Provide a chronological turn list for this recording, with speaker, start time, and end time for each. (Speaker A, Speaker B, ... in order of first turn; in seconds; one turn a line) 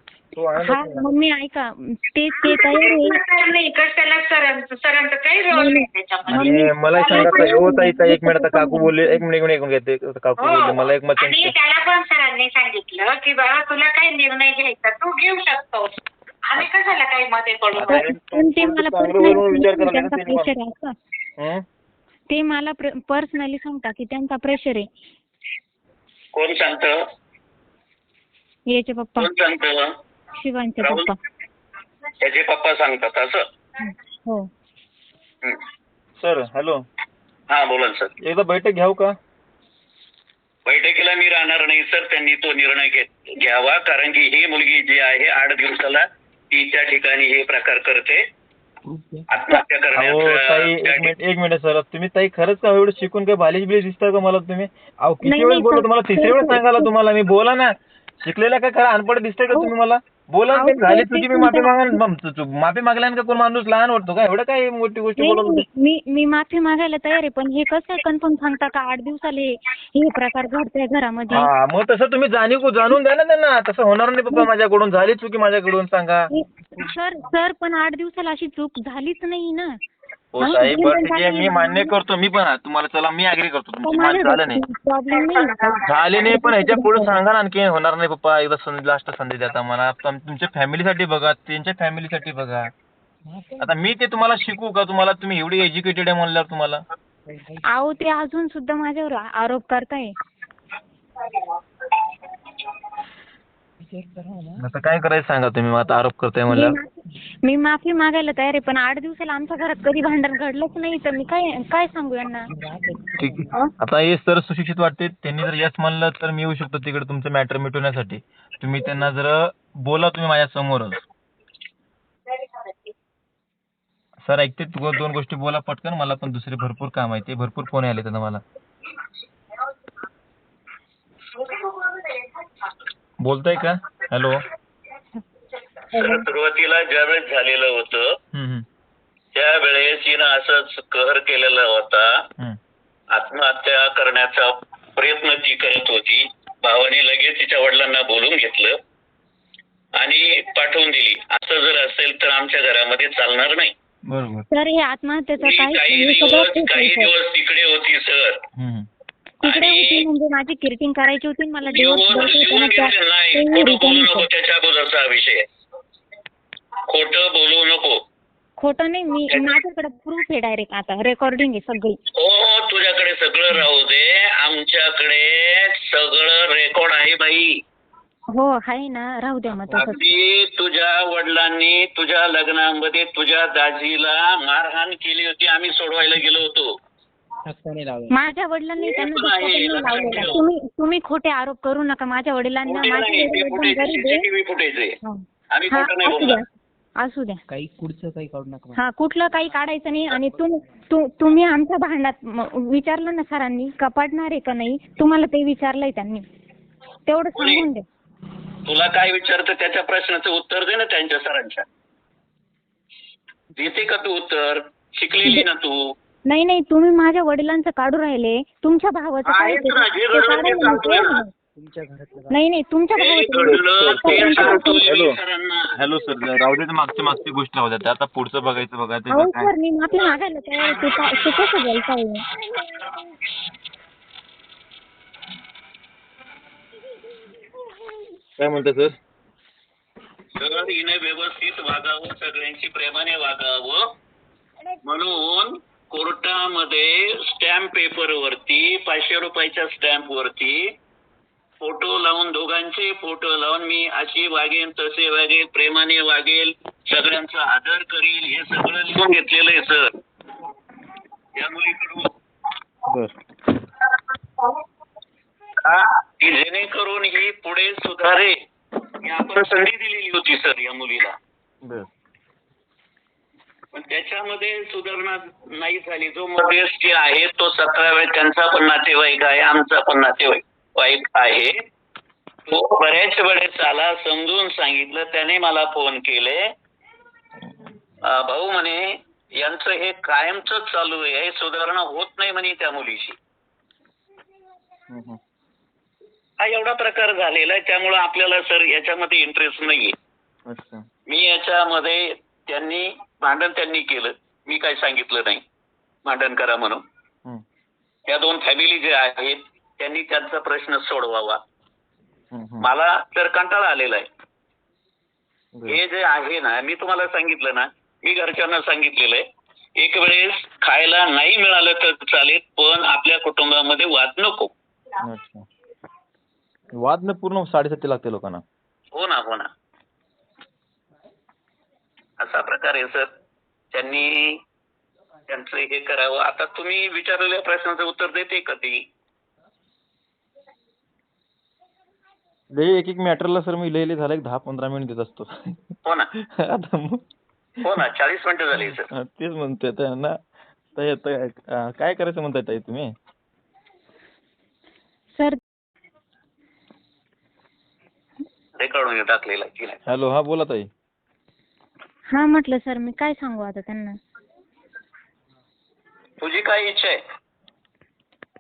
Speaker A: 0.3-1.1
Speaker B: 0.6-3.2
Speaker C: 2.4-7.6
Speaker B: 5.5-9.2
Speaker A: 6.3-11.5
Speaker C: 10.4-15.9
Speaker C: 16.5-18.1
Speaker A: 17.7-20.5
Speaker B: 17.9-20.9
Speaker A: 21.4-21.6
Speaker B: 22.3-24.9
Speaker D: 26.3-27.0
Speaker B: 28.7-29.3
Speaker D: 29.2-29.9
Speaker B: 30.4-31.2
Speaker D: 30.8-31.1
Speaker D: 32.2-33.5
Speaker B: 33.8-34.5
Speaker A: 36.2-36.8
Speaker D: 37.5-38.1
Speaker A: 38.2-39.1
Speaker D: 40.6-48.2
Speaker E: 48.9-49.3
Speaker D: 49.3-51.1
Speaker A: 49.9-65.7
Speaker B: 55.2-56.9
Speaker B: 60.5-62.0
Speaker B: 65.2-71.5
Speaker A: 71.3-76.3
Speaker B: 76.3-79.8
Speaker A: 80.3-84.6
Speaker B: 80.4-81.9
Speaker B: 83.8-87.1
Speaker C: 85.1-86.4
Speaker A: 85.8-92.7
Speaker E: 93.2-93.8
Speaker A: 93.6-96.8
Speaker E: 97.2-97.7
Speaker B: 97.7-100.1
Speaker E: 103.8-104.7
Speaker A: 104.6-106.8
Speaker B: 106.5-112.5
Speaker E: 112.5-113.5
Speaker A: 113.2-121.0
Speaker A: 124.2-128.4
Speaker C: 131.4-132.2
Speaker A: 133.2-134.4
Speaker B: 135.9-136.2
Speaker D: 135.9-138.2
Speaker A: 138.3-138.7
Speaker D: 139.3-142.2
Speaker D: 143.1-148.8
Speaker D: 150.0-153.7
Speaker A: 154.1-154.5
Speaker B: 154.5-157.1
Speaker D: 155.4-158.4
Speaker A: 158.6-158.9
Speaker B: 159.4-164.3
Speaker D: 159.4-160.0
Speaker D: 161.6-165.4
Speaker D: 166.9-168.0
Speaker B: 168.6-172.0
Speaker D: 169.3-169.6
Speaker D: 172.1-177.6
Speaker B: 178.3-180.1
Speaker E: 179.7-180.0
Speaker D: 179.8-186.7
Speaker E: 187.4-188.2
Speaker B: 188.1-194.2
Speaker D: 188.8-190.4
Speaker E: 190.0-190.4
Speaker D: 192.7-195.0
Speaker B: 195.0-196.4
Speaker D: 195.5-196.4
Speaker B: 197.0-197.4
Speaker E: 197.5-198.8
Speaker B: 198.7-206.2
Speaker E: 200.1-200.6
Speaker B: 207.1-207.8
Speaker D: 207.4-207.7
Speaker D: 208.7-211.6
Speaker E: 213.6-213.8
Speaker D: 213.6-215.9
Speaker B: 216.3-221.3
Speaker D: 219.2-221.2
Speaker E: 221.5-222.4
Speaker B: 222.3-224.8
Speaker D: 223.0-225.7
Speaker A: 223.5-225.2
Speaker A: 225.7-229.5
Speaker B: 229.1-232.2
Speaker D: 230.6-231.5
Speaker A: 238.4-238.9
Speaker D: 240.3-243.9
Speaker D: 244.8-250.7
Speaker D: 251.6-259.9
Speaker D: 261.4-262.1
Speaker A: 262.9-263.1
Speaker D: 265.6-268.4
Speaker D: 269.0-271.1
Speaker A: 271.6-271.9
Speaker D: 273.7-281.6
Speaker D: 282.5-286.4
Speaker D: 288.0-293.2
Speaker A: 294.9-295.2
Speaker D: 296.4-299.9
Speaker A: 300.5-300.9
Speaker D: 301.1-305.4
Speaker D: 306.1-306.8
Speaker D: 308.1-311.4
Speaker A: 312.3-312.7
Speaker D: 312.6-314.1
Speaker A: 315.5-315.8
Speaker D: 315.7-319.2
Speaker D: 319.8-324.5
Speaker A: 325.0-325.4
Speaker A: 326.8-328.4
Speaker D: 328.9-329.5
Speaker D: 332.2-333.1
Speaker D: 333.7-334.4
Speaker D: 335.3-338.8
Speaker A: 342.5-345.7
Speaker A: 346.3-347.0
Speaker D: 347.6-348.9
Speaker A: 348.5-350.2
Speaker A: 350.7-352.9
Speaker B: 355.1-355.4
Speaker D: 358.6-359.8
Speaker A: 359.9-360.7
Speaker B: 362.1-364.0
Speaker D: 366.2-367.0